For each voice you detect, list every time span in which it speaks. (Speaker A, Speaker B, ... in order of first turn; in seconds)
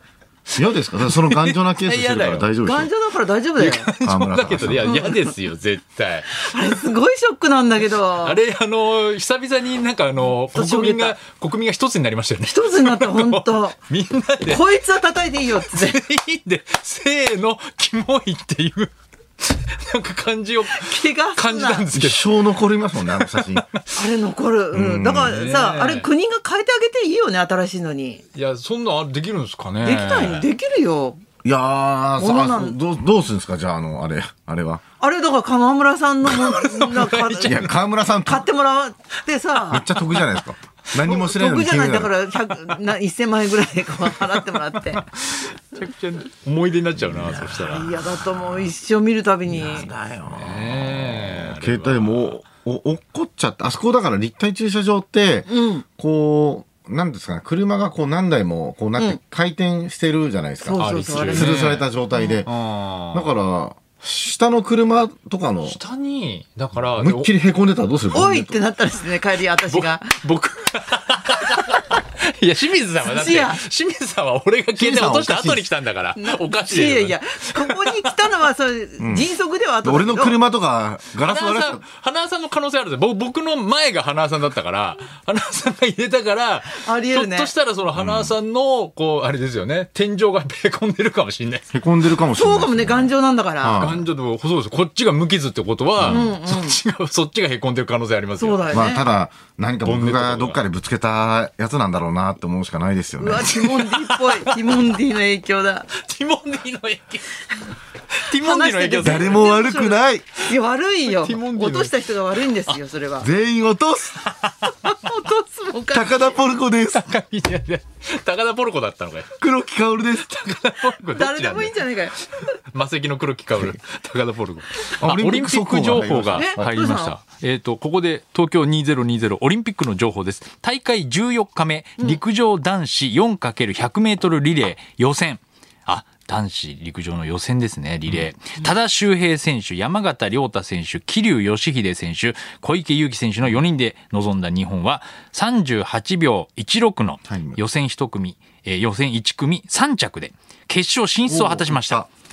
Speaker A: 0.6-2.9, 4.0-4.9, 21.9-23.7, 24.7-25.4, 31.4-34.8, 37.4-38.5, 39.7-42.1, 47.0-47.5, 49.5-62.5, 63.1-65.8, 66.9-68.6, 74.8-75.7, 79.0-79.3, 79.8-81.8, 88.0-88.3, 91.7-94.0, 96.0-96.3, 98.7-103.6, 109.0-110.3, 113.2-114.3, 115.9-117.1, 119.4-120.3, 125.0-126.6, 147.3-147.6, 151.3-152.1
Speaker B: 1.1-2.5, 3.6-6.5, 8.2-14.8, 15.6-23.9, 25.1-26.1, 28.4-30.5, 36.3-37.7, 39.9-40.4, 44.1-48.3, 49.8-52.4, 60.8-63.3, 65.7-67.3, 69.7-78.1, 81.2-91.7, 93.8-98.9, 99.8-100.6, 103.5-104.6, 106.0-107.4, 108.1-109.5, 111.0-112.0, 114.4-114.7, 116.9-119.5, 120.1-152.1
Speaker C: 2.6-3.9, 4.8-5.3, 6.3-8.4, 10.5-11.2, 12.5-13.8, 14.4-16.0, 20.7-21.9, 23.9-28.2, 29.8-31.2, 32.2-32.8, 35.0-39.9, 41.0-45.1, 47.6-49.9, 55.5-55.8, 60.6-61.6, 68.1-70.2, 73.0-73.6, 76.2-80.4, 86.7-87.5, 92.3-93.9, 96.0-96.8, 98.4-99.0, 103.2-105.9, 108.3-113.3, 114.8-116.4, 121.1-122.2, 126.3-127.2